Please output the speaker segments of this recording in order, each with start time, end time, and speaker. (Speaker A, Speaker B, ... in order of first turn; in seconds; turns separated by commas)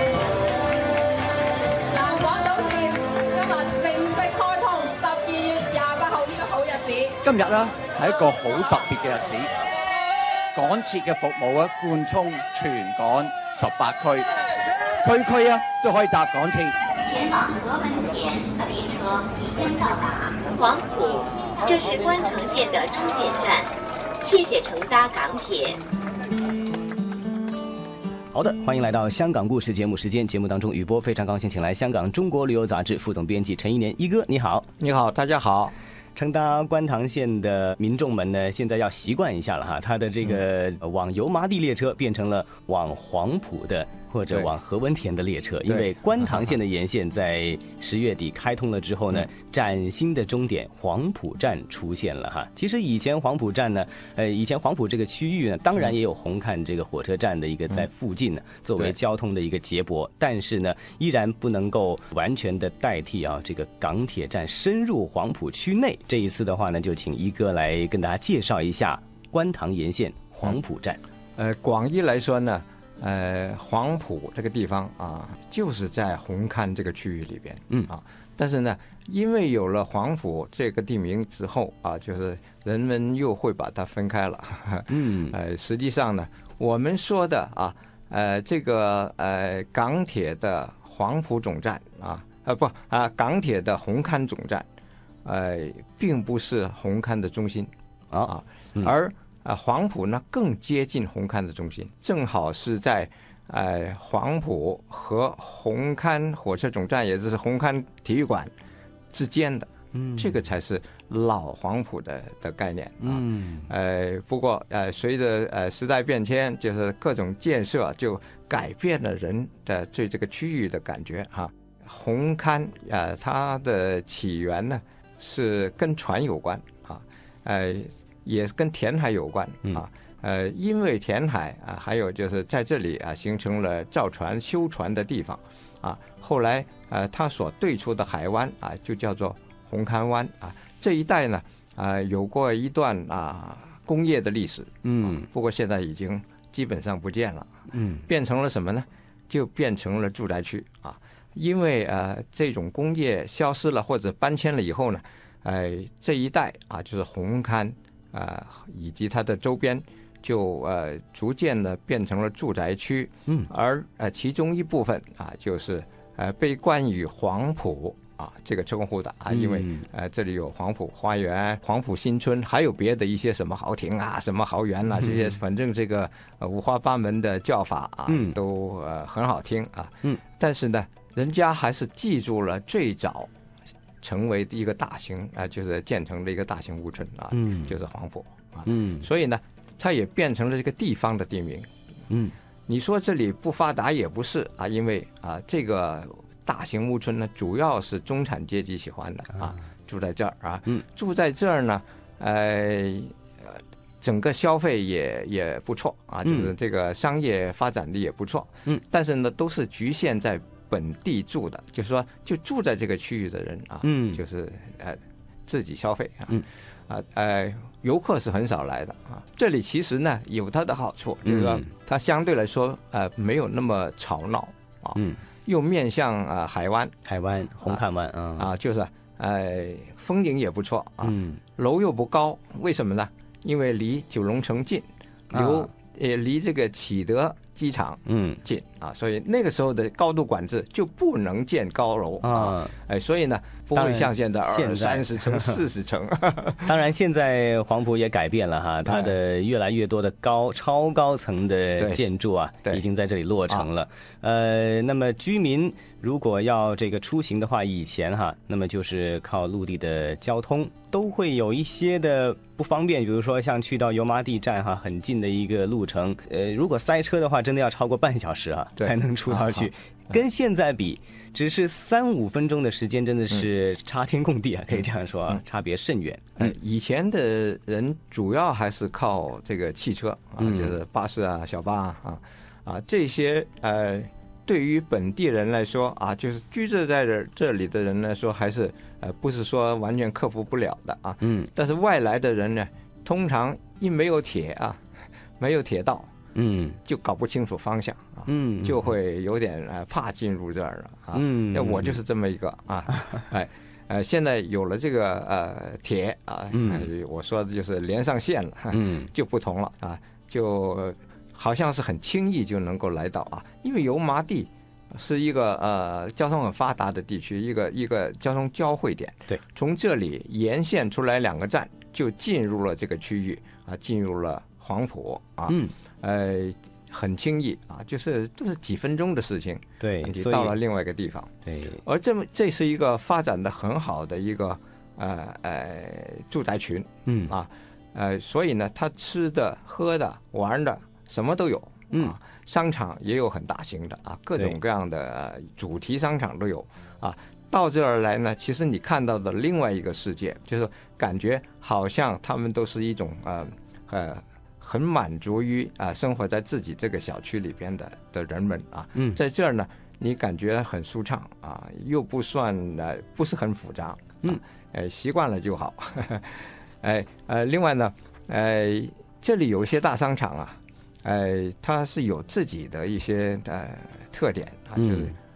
Speaker A: 1.9-7.2, Speaker B: 7.2-9.6, Speaker B: 10.5-14.3, Speaker B: 15.0-16.8, Speaker C: 17.0-25.8, Speaker D: 28.3-34.7, Speaker E: 34.8-35.7, Speaker D: 36.1-71.0, Speaker E: 45.6-46.5, Speaker E: 71.3-94.7, Speaker D: 84.9-85.3, Speaker E: 95.2-97.7, Speaker D: 98.1-98.9, Speaker E: 98.2-108.5, Speaker E: 109.1-147.5, Speaker D: 109.9-110.4, Speaker D: 113.0-113.7, Speaker D: 144.8-145.3, Speaker D: 147.7-148.1, Speaker E: 148.1-183.3, Speaker D: 169.3-169.8, Speaker D: 178.1-178.4, Speaker E: 184.0-191.7, Speaker D: 187.3-187.7, Speaker D: 188.7-189.1, Speaker E: 192.7-226.9, Speaker D: 206.2-206.5, Speaker D: 213.8-214.2, Speaker D: 221.2-221.7, Speaker D: 224.9-225.2, Speaker D: 227.0-228.5, Speaker E: 228.4-246.8, Speaker D: 231.0-231.4, Speaker D: 235.3-235.7, Speaker D: 238.1-238.4, Speaker D: 242.2-242.7, Speaker D: 243.7-245.6, Speaker D: 246.7-276.5, Speaker E: 248.8-249.2, Speaker E: 251.8-252.1, Speaker E: 268.8-269.7, Speaker E: 274.8-275.4, Speaker E: 276.4-294.8, Speaker D: 280.4-280.7, Speaker D: 291.2-291.5, Speaker E: 295.4-296.1, Speaker D: 296.3-296.8, Speaker E: 296.8-331.3, Speaker D: 298.3-298.8, Speaker D: 301.1-302.0, Speaker D: 306.5-306.9, Speaker D: 308.7-309.1, Speaker D: 329.8-330.6, Speaker D: 331.4-331.8, Speaker E: 331.8-375.1, Speaker D: 337.1-337.3, Speaker D: 374.8-375.1